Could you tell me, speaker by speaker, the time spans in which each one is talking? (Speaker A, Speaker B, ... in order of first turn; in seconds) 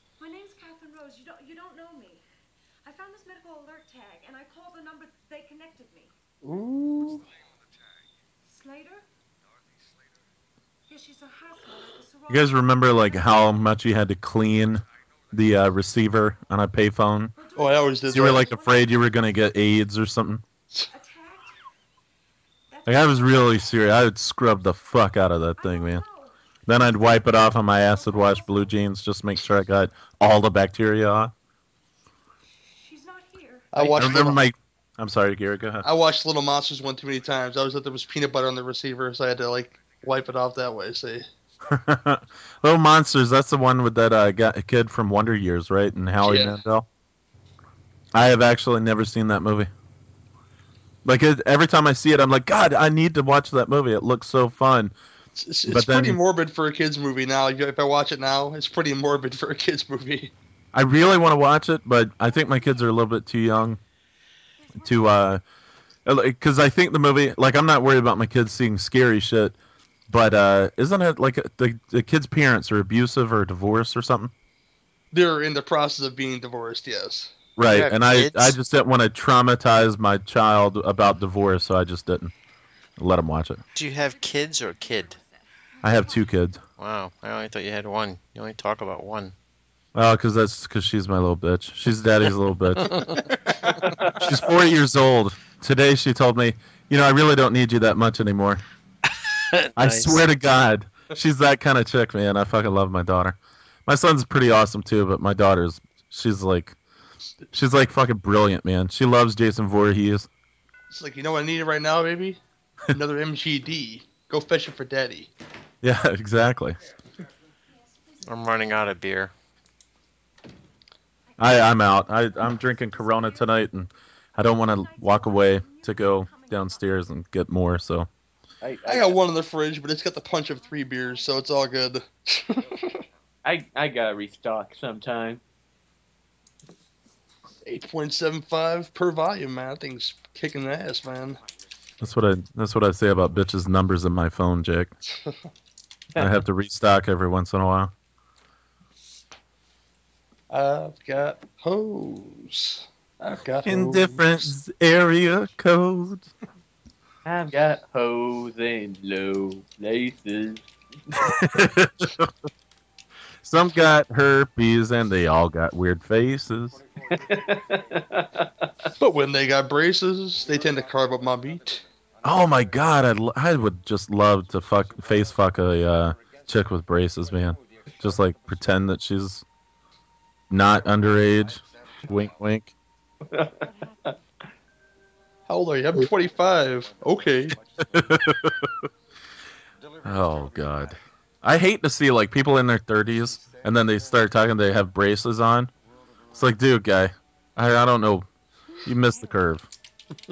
Speaker A: 0.2-2.2, 2.8-6.1, 8.5-9.1, 10.9-13.5, 17.4-19.1, 20.9-21.6, 22.7-24.0, 25.6-28.8, 32.7-33.7, 62.3-62.8, 64.7-65.1, 83.8-86.4, 117.7-118.6, 121.3-123.7, 124.5-127.1, 130.0-131.9, 183.6-184.2, 198.8-199.6
Speaker B: 6.4-7.2, 17.6-18.5, 33.7-34.4, 35.8-41.3, 46.2-46.6, 55.4-60.3, 75.1-77.3, 110.9-115.3, 128.8-133.0, 137.7-141.4, 150.5-154.5, 169.0-171.8, 185.5-187.6
Speaker C: 12.3-17.3, 18.1-20.4, 22.9-26.0, 26.7-31.3, 33.8-35.9, 41.7-46.9, 48.1-49.7, 51.0-54.9, 55.7-56.2, 60.7-63.8, 64.8-65.4, 66.1-69.5, 70.1-74.3, 77.6-82.3, 83.0-83.6, 85.8-86.6, 90.0-93.2, 94.2-98.6, 99.8-106.8, 107.5-110.3, 115.8-116.8, 121.4-128.1, 142.0-144.9, 146.2-147.9, 153.6-156.3, 161.2-162.3, 163.4-166.8, 172.2-179.4, 180.5-182.7, 187.9-188.7, 190.0-195.7, 196.3-198.3, 198.8-199.7
Speaker D: 77.6-78.6, 83.8-85.2, 86.8-89.3, 99.5-100.2, 118.2-119.3
Speaker E: 128.6-129.2, 133.4-135.4, 157.2-161.2, 167.1-168.9, 183.3-184.1